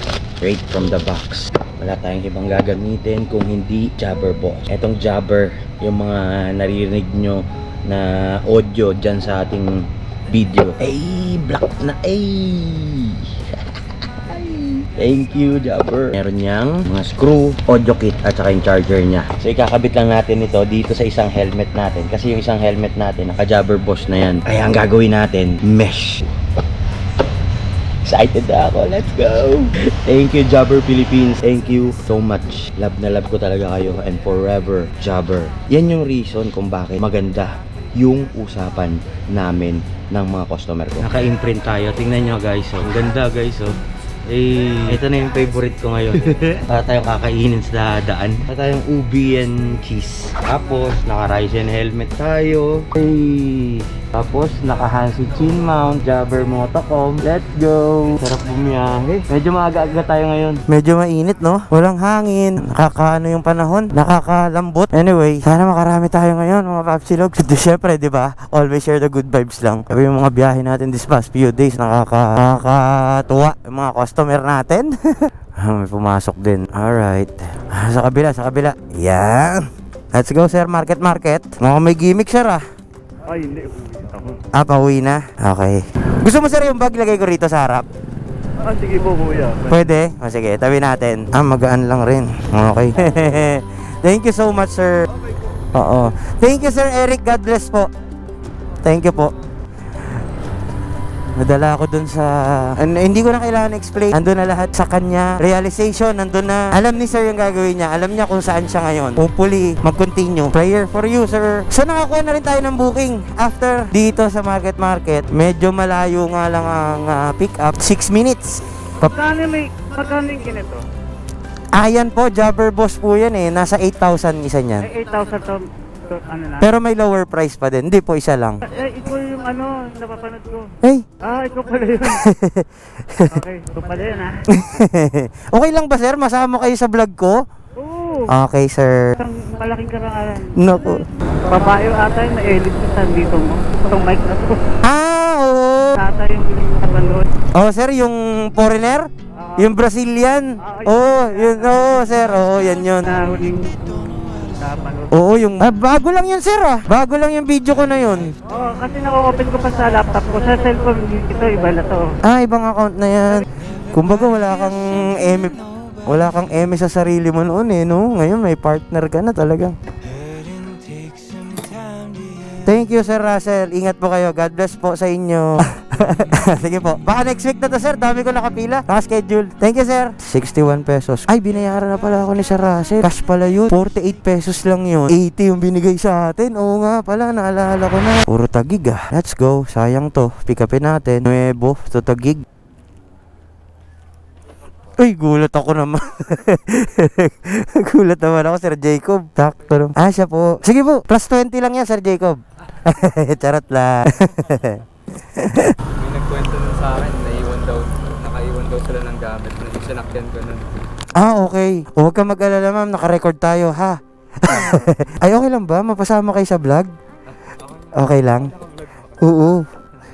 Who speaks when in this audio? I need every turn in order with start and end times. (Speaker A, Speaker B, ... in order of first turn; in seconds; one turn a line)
Speaker A: 0.4-9.7
Speaker A: 10.3-13.3
Speaker A: 14.3-26.2
Speaker A: 28.1-43.7
Speaker A: 44.3-60.6
Speaker B: 60.7-82.6
Speaker C: 83.3-84.2
Speaker B: 84.5-87.9
Speaker C: 88.7-89.6
Speaker B: 89.7-95.1
Speaker B: 95.7-97.9
Speaker B: 98.8-99.3
Speaker B: 101.4-119.2
Speaker C: 119.0-120.8
Speaker B: 121.7-124.9
Speaker C: 124.8-126.7
Speaker B: 126.6-128.6
Speaker C: 128.7-130.7
Speaker C: 131.2-132.2
Speaker B: 132.2-133.4
Speaker C: 133.3-134.4
Speaker B: 134.5-137.4
Speaker C: 137.8-138.3
Speaker B: 138.3-139.2
Speaker C: 139.2-140.6
Speaker B: 140.6-141.0
Speaker C: 141.5-144.6
Speaker B: 144.8-145.9
Speaker C: 146.0-147.3
Speaker B: 147.6-153.1
Speaker C: 150.6-151.7
Speaker C: 153.0-155.1
Speaker B: 155.1-158.3
Speaker C: 158.5-162.2
Speaker B: 162.2-169.8
Speaker B: 172.5-192.4
Speaker B: 195.0-205.8
Speaker D: 206.0-210.7
Speaker B: 211.2-216.9
Speaker B: 217.9-218.6
Speaker B: 219.2-219.7